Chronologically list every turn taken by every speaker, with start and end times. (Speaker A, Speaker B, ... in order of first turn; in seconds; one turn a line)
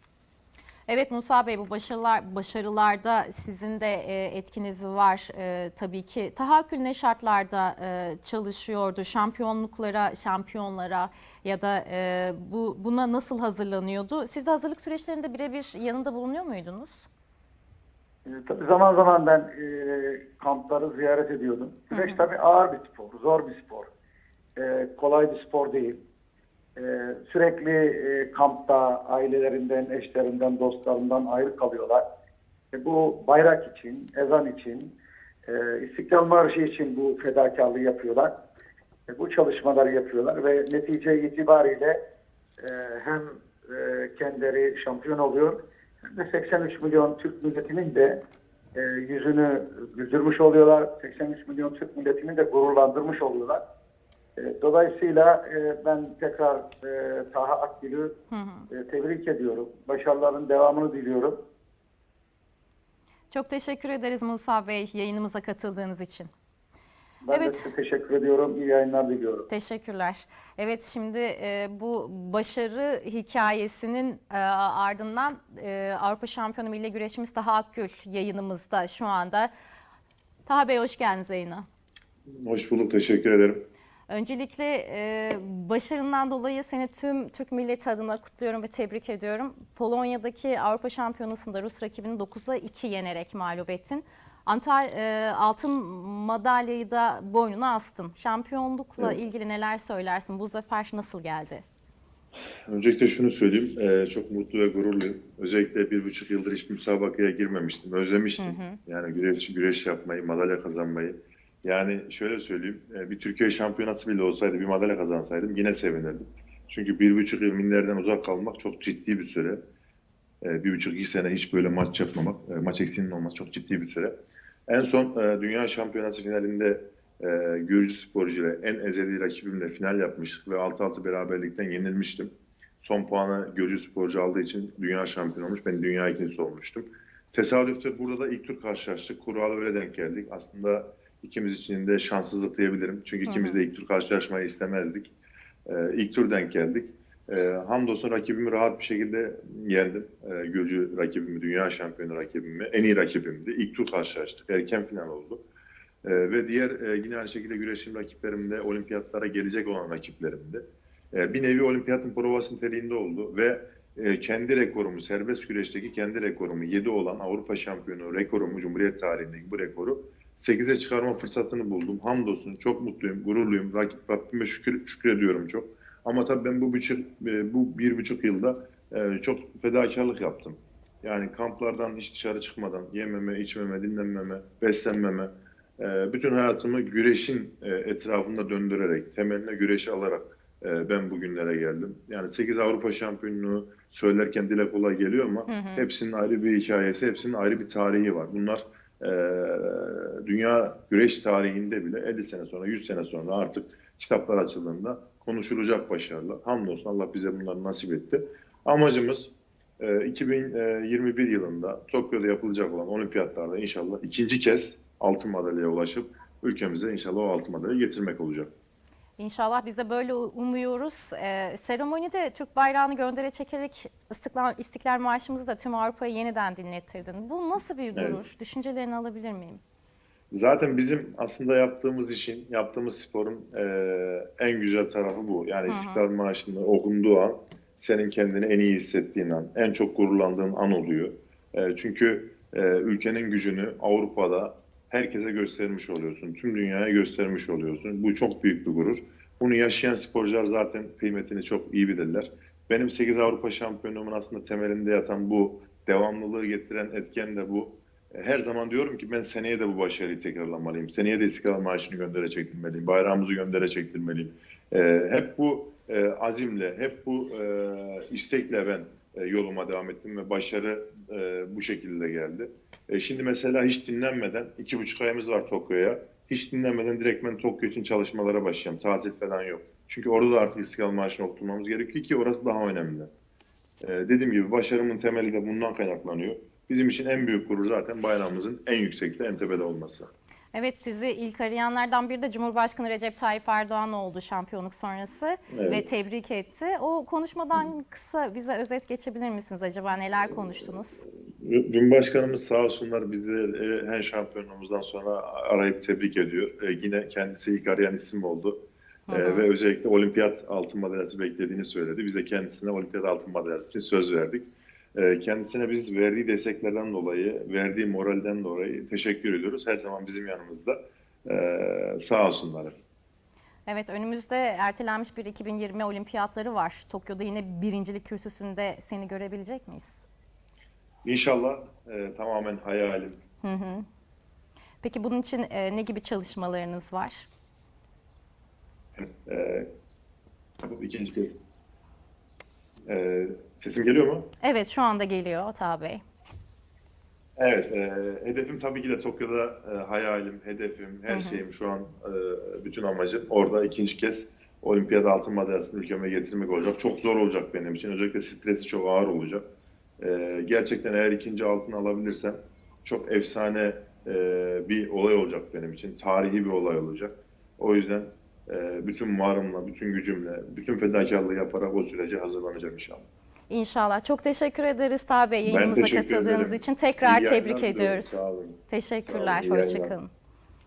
Speaker A: 0.9-17.1
Speaker B: 18.2-23.9
Speaker A: 21.9-22.2
Speaker B: 24.6-26.0
Speaker B: 26.8-32.0
Speaker B: 32.7-34.9
Speaker B: 35.5-38.3
Speaker B: 39.1-42.0
Speaker B: 42.6-48.2
Speaker B: 48.8-53.6
Speaker B: 54.4-58.1
Speaker A: 58.3-58.7
Speaker B: 58.7-61.4
Speaker A: 63.3-66.3
Speaker B: 67.2-69.5
Speaker A: 67.3-67.7
Speaker A: 69.5-79.5
Speaker A: 80.5-81.6
Speaker C: 82.4-83.6
Speaker A: 84.1-101.6
Speaker C: 102.7-119.6
Speaker A: 108.4-108.8
Speaker C: 120.5-124.1
Speaker C: 124.7-145.1
Speaker A: 143.2-143.6
Speaker C: 145.7-155.4
Speaker C: 156.1-218.5
Speaker A: 195.5-195.9
Speaker A: 219.2-229.6
Speaker C: 227.9-228.2
Speaker C: 230.3-283.1
Speaker A: 235.7-236.0
Speaker C: 283.8-290.1
Speaker A: 290.5-301.0
Speaker C: 295.5-295.8
Speaker C: 301.4-308.6
Speaker A: 309.1-309.5
Speaker C: 309.1-322.8
Speaker A: 323.6-329.9
Speaker C: 331.1-333.2
Speaker A: 333.4-333.9
Speaker A: 334.8-337.3
Speaker C: 339.0-339.6
Speaker C: 340.6-341.3
Speaker C: 342.9-344.3
Speaker A: 344.4-346.0
Speaker C: 347.4-359.4
Speaker A: 351.1-351.4
Speaker C: 360.0-373.1
Speaker A: 373.5-380.1
Speaker C: 375.5-379.9